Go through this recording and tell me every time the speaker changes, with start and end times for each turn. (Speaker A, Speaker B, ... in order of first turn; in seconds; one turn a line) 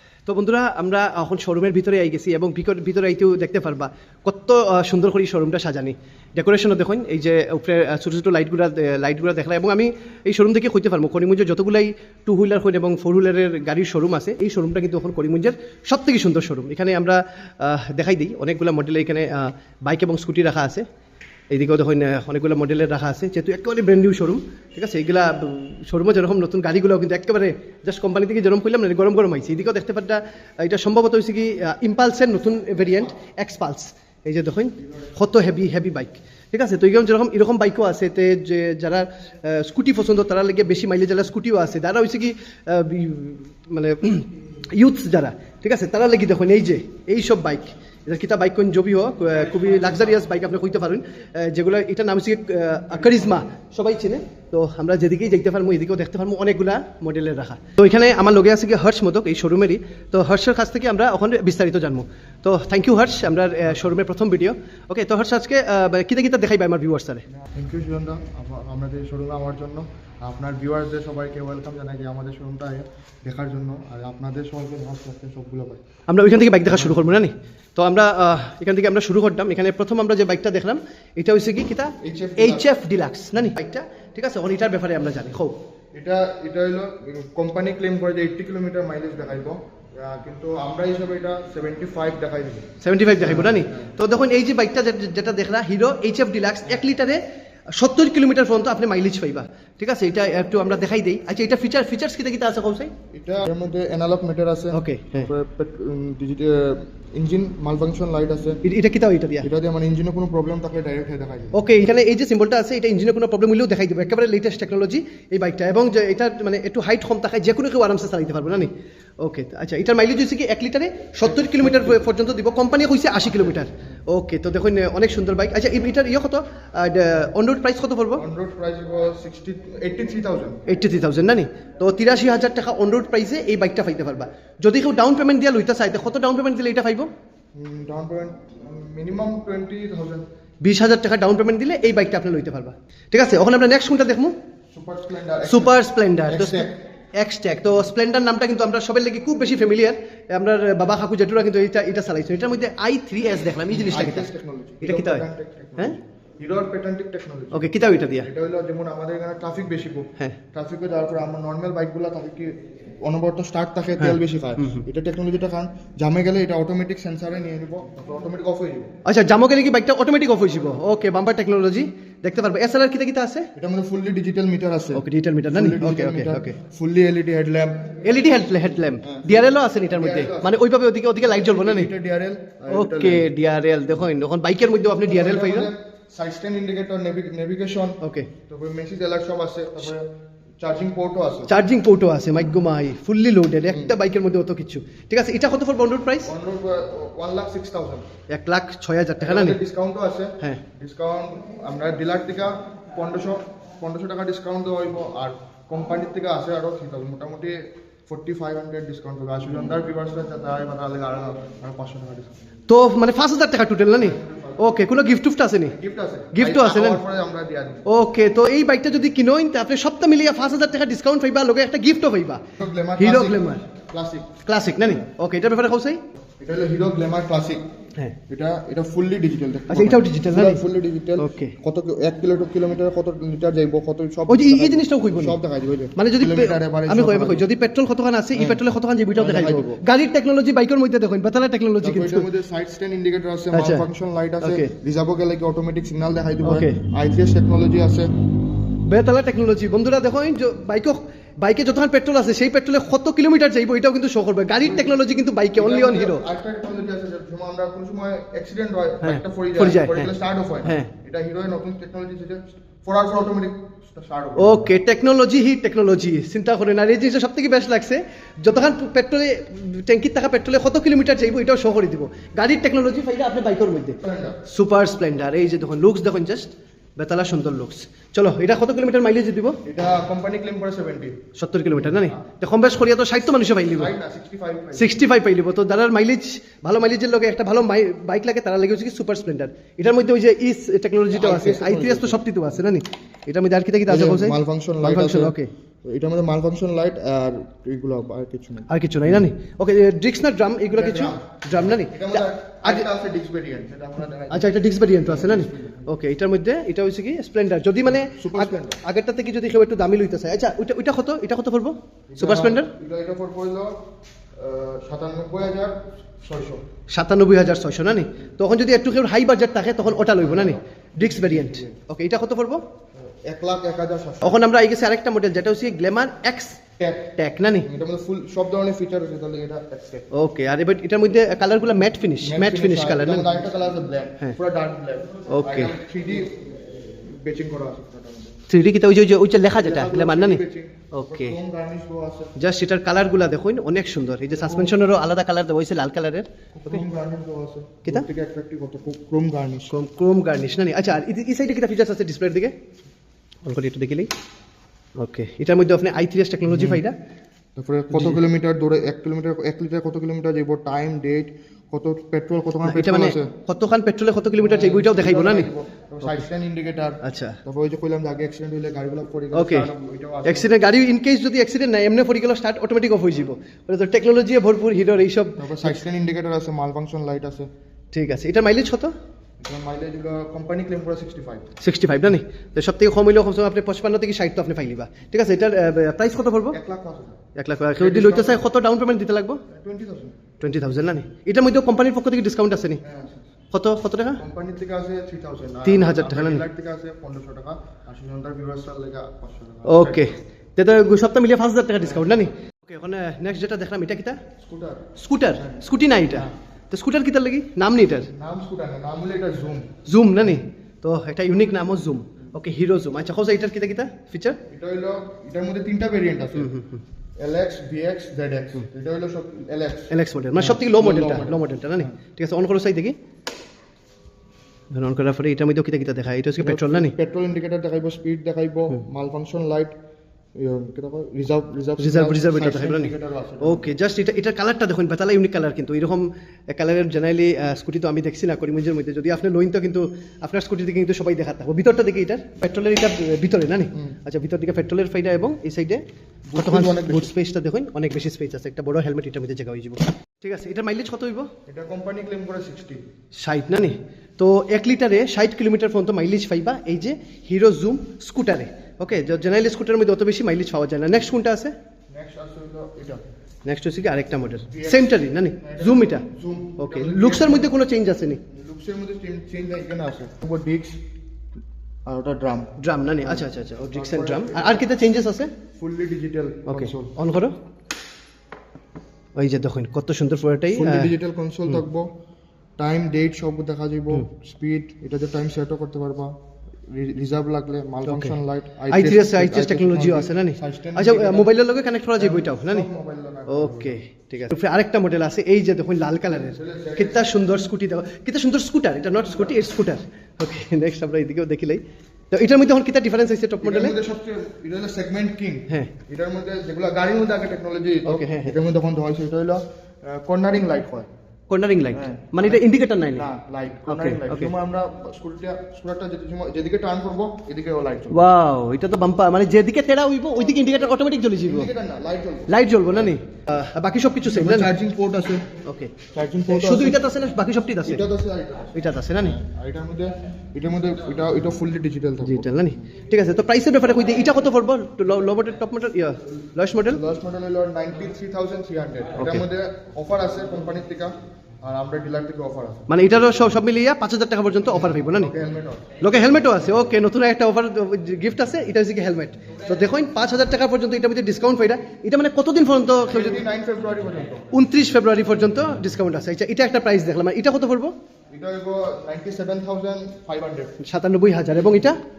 Speaker A: 0.3-20.9
Speaker A: 21.5-67.2
Speaker B: 32.7-33.1
Speaker B: 34.8-35.1
Speaker B: 67.3-75.8
Speaker A: 76.1-85.6
Speaker B: 82.0-82.8
Speaker B: 85.9-93.9
Speaker A: 92.8-97.2
Speaker A: 97.7-102.9
Speaker B: 103.1-108.6
Speaker A: 104.7-105.3
Speaker A: 108.6-109.5
Speaker B: 109.4-111.6
Speaker A: 111.5-128.2
Speaker B: 121.2-122.0
Speaker B: 128.2-130.6
Speaker A: 130.7-137.1
Speaker B: 137.6-140.2
Speaker A: 140.6-144.4
Speaker B: 144.7-146.8
Speaker A: 145.5-155.3
Speaker B: 153.7-168.9
Speaker A: 157.5-158.3
Speaker A: 164.0-164.8
Speaker A: 169.1-173.5
Speaker B: 173.6-178.0
Speaker A: 174.9-176.6
Speaker A: 178.0-181.9
Speaker B: 179.0-180.6
Speaker B: 181.2-183.3
Speaker A: 182.7-185.7
Speaker B: 185.1-190.1
Speaker A: 188.0-188.3
Speaker B: 190.6-191.5
Speaker A: 191.5-196.3
Speaker B: 193.7-193.9
Speaker B: 196.3-198.1
Speaker A: 198.3-199.6
Speaker B: 199.2-212.4
Speaker A: 212.7-215.8
Speaker B: 213.9-214.7
Speaker B: 215.7-217.9
Speaker A: 216.3-217.0
Speaker A: 217.9-222.4
Speaker B: 222.6-224.4
Speaker A: 223.0-223.6
Speaker A: 224.4-226.0
Speaker B: 226.4-227.6
Speaker B: 228.3-237.5
Speaker A: 229.7-230.6
Speaker A: 231.2-231.6
Speaker A: 234.3-235.4
Speaker A: 236.0-242.3
Speaker B: 238.3-238.6
Speaker B: 239.2-239.8
Speaker B: 241.8-248.1
Speaker A: 243.5-243.9
Speaker A: 244.4-244.7
Speaker A: 246.4-246.8
Speaker A: 248.8-256.2
Speaker B: 254.6-255.0
Speaker B: 255.5-264.6
Speaker A: 259.0-260.1
Speaker A: 260.6-260.9
Speaker A: 264.4-279.6
Speaker B: 274.0-274.4
Speaker B: 279.6-281.2
Speaker A: 281.4-283.9
Speaker B: 281.7-282.2
Speaker B: 283.7-285.1
Speaker A: 284.8-295.5
Speaker B: 291.1-292.2
Speaker B: 293.9-298.7
Speaker A: 298.7-302.9
Speaker B: 300.7-305.9
Speaker A: 304.3-312.7
Speaker B: 308.0-308.8
Speaker B: 312.1-313.8
Speaker B: 314.4-316.6
Speaker A: 316.9-322.6
Speaker B: 320.0-321.8
Speaker B: 323.0-324.4
Speaker A: 324.2-326.6
Speaker B: 326.8-330.1
Speaker A: 327.2-327.7
Speaker A: 330.1-333.4
Speaker B: 332.2-338.4
Speaker A: 335.3-335.7
Speaker A: 338.5-341.4
Speaker B: 339.6-342.3
Speaker A: 342.4-346.8
Speaker B: 344.4-344.7
Speaker B: 346.5-349.7
Speaker A: 349.7-352.5
Speaker A: 353.4-354.1
Speaker A: 355.0-357.0
Speaker B: 356.5-356.8
Speaker B: 357.6-363.3
Speaker A: 362.6-365.5
Speaker B: 364.4-370.5
Speaker A: 367.0-367.4
Speaker A: 369.3-369.7
Speaker A: 370.2-375.8
Speaker B: 375.4-377.5
Speaker A: 377.9-378.9
Speaker B: 379.4-381.5
Speaker A: 381.6-386.6
Speaker B: 386.5-387.2
Speaker A: 387.4-389.4
Speaker B: 387.8-388.4
Speaker B: 389.5-390.2
Speaker A: 390.4-392.8
Speaker B: 392.8-393.3
Speaker A: 393.5-394.2
Speaker B: 394.2-400.1
Speaker A: 395.6-396.4
Speaker A: 399.7-404.2
Speaker B: 404.4-406.3
Speaker A: 405.0-408.1
Speaker B: 408.1-409.7
Speaker A: 409.9-414.4
Speaker B: 414.5-416.5
Speaker A: 416.4-416.8
Speaker B: 417.2-421.9
Speaker A: 419.9-423.0
Speaker A: 424.7-426.9
Speaker B: 426.4-429.8
Speaker B: 430.4-433.7
Speaker A: 431.8-445.8
Speaker B: 446.3-447.1
Speaker A: 446.4-451.3
Speaker B: 451.5-452.8
Speaker A: 453.2-461.5
Speaker B: 461.9-463.0
Speaker A: 463.5-466.1
Speaker B: 464.5-467.6
Speaker A: 466.6-468.2
Speaker B: 468.3-470.8
Speaker B: 471.9-474.7
Speaker A: 472.6-475.3
Speaker B: 475.6-476.9
Speaker A: 476.5-477.4
Speaker A: 479.2-480.9
Speaker B: 480.5-481.9
Speaker B: 482.6-486.1
Speaker B: 486.7-491.3
Speaker A: 487.9-488.2
Speaker A: 488.7-492.7
Speaker B: 492.0-493.8
Speaker A: 493.3-503.8
Speaker B: 496.3-497.1
Speaker B: 503.4-510.9
Speaker A: 507.9-508.4
Speaker A: 511.3-513.1
Speaker B: 511.7-518.0
Speaker A: 513.7-514.3
Speaker A: 517.9-521.5
Speaker B: 521.2-522.9
Speaker A: 522.3-524.5
Speaker B: 524.0-525.3
Speaker A: 525.5-525.7
Speaker B: 525.9-526.8
Speaker A: 526.3-527.8
Speaker B: 527.6-532.6
Speaker A: 528.5-529.2
Speaker A: 532.0-536.8
Speaker B: 536.7-542.7
Speaker A: 539.0-539.3
Speaker A: 542.7-545.1
Speaker B: 544.5-545.7
Speaker A: 545.8-553.2
Speaker B: 552.9-554.3
Speaker A: 554.3-557.8
Speaker B: 558.1-560.6
Speaker A: 560.6-561.8